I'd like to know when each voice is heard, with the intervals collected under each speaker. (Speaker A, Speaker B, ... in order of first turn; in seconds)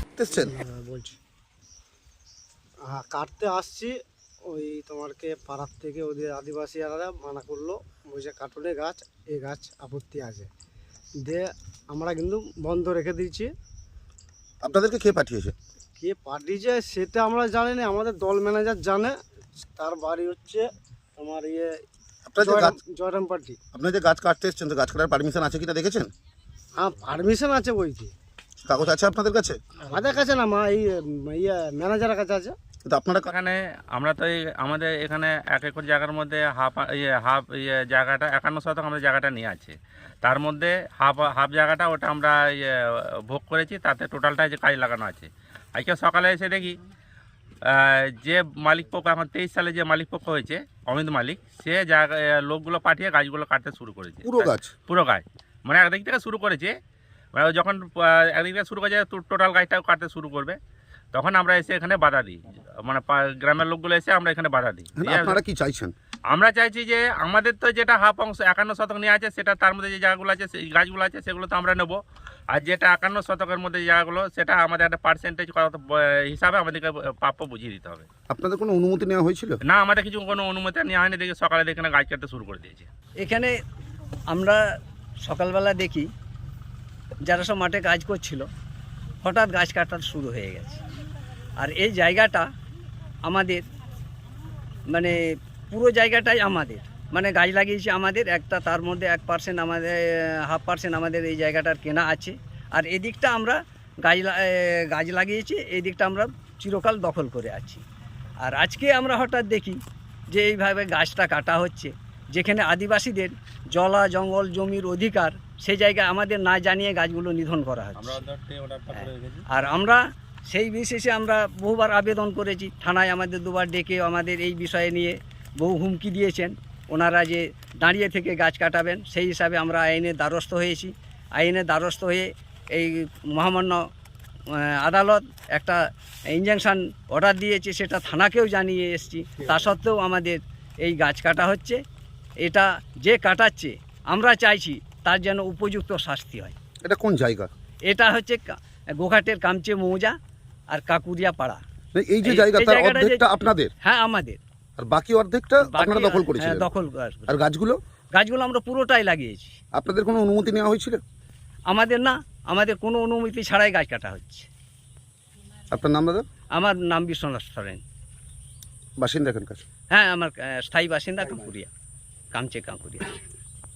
Speaker A: 0.2-0.5, 14.6-15.6, 22.3-22.8, 23.7-26.1, 28.6-29.6, 32.8-33.3, 54.2-54.7, 65.0-65.9, 78.3-79.6, 146.8-147.5, 151.9-153.7, 154.8-156.7, 157.3-157.8, 159.8-161.0, 165.7-166.2, 169.0-169.6
Speaker B: 0.3-1.2, 2.9-4.0, 4.5-10.5, 11.2-13.5, 16.0-19.2, 19.8-21.8, 22.4-23.6, 26.8-28.1, 29.9-32.5
Speaker C: 33.3-46.8, 47.6-56.7, 57.3-60.6, 61.1-65.4, 66.3-72.0, 72.5-78.1, 79.7-82.9, 118.0-119.5
Speaker D: 83.2-83.5, 84.3-84.6, 85.2-86.1, 87.2-88.5, 89.2-90.8, 91.6-92.5, 93.3-93.6, 94.9-95.2, 95.7-107.8, 108.4-109.8, 110.3-118.2, 118.9-133.8, 134.8-135.8, 136.3-141.8, 142.4-146.6, 147.9-150.2, 150.7-151.6, 152.2-153.3, 153.8-154.4, 155.6-157.4, 158.1-159.6, 161.7-164.5, 166.6-167.8, 169.9-171.7, 172.3-173.2